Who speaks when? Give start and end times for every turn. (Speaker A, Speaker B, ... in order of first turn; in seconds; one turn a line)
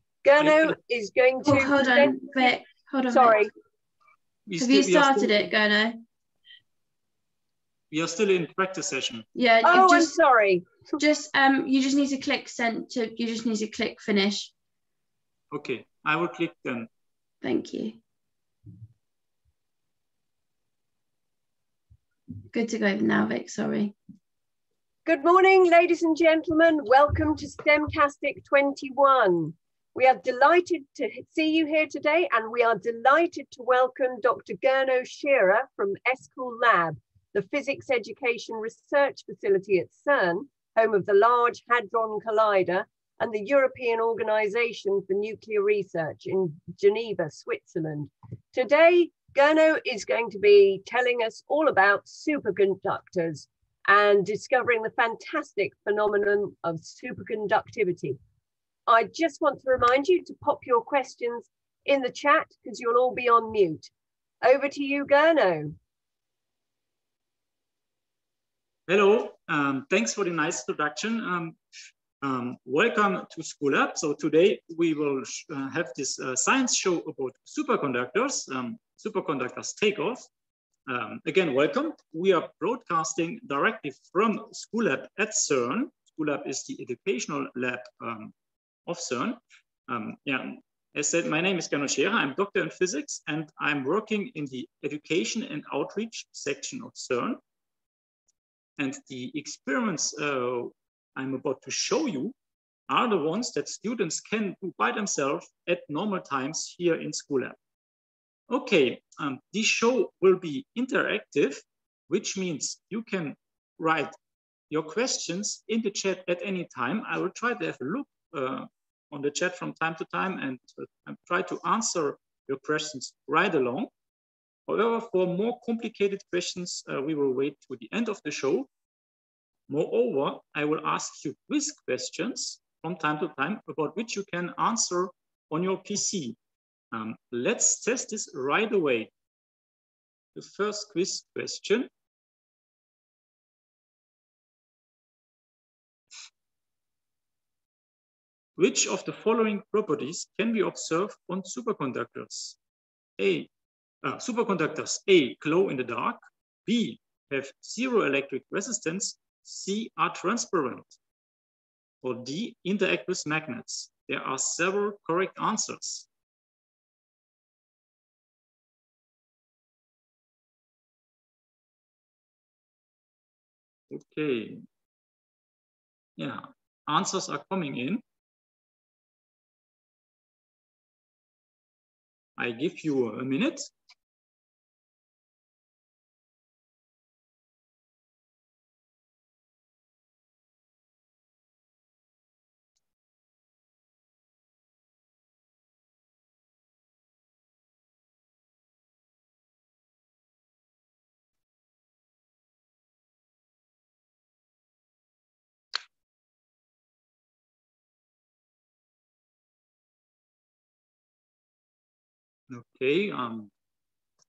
Speaker A: 0.2-2.5
Speaker B: 0.4-0.8
Speaker C: 1.4-3.5
Speaker A: 3.1-3.5
Speaker B: 4.5-5.5
Speaker C: 4.6-6.0
Speaker B: 7.9-9.2
Speaker C: 9.3-10.1
Speaker A: 9.6-10.8
Speaker C: 11.0-14.5
Speaker B: 15.5-16.9
Speaker C: 17.4-18.0
Speaker C: 22.5-23.9
Speaker A: 25.1-58.2
Speaker A: 58.9-63.9
Speaker A: 64.4-65.7
Speaker B: 68.9-71.6
Speaker B: 72.2-80.3
Speaker B: 80.9-88.3
Speaker B: 88.8-97.4
Speaker B: 98.8-102.3
Speaker B: 102.9-107.5
Speaker B: 108.5-114.1
Speaker B: 114.7-123.9
Speaker B: 124.7-128.7
Speaker B: 129.7-136.4
Speaker B: 136.9-139.1
Speaker B: 140.3-141.9
Speaker B: 148.6-152.6
Speaker B: 153.2-153.5
Speaker B: 154.0-160.9
Speaker B: 162.0-166.1
Speaker B: 173.9-174.6
Speaker B: 176.2-178.0
Speaker B: 182.4-183.7
Speaker B: 212.5-213.5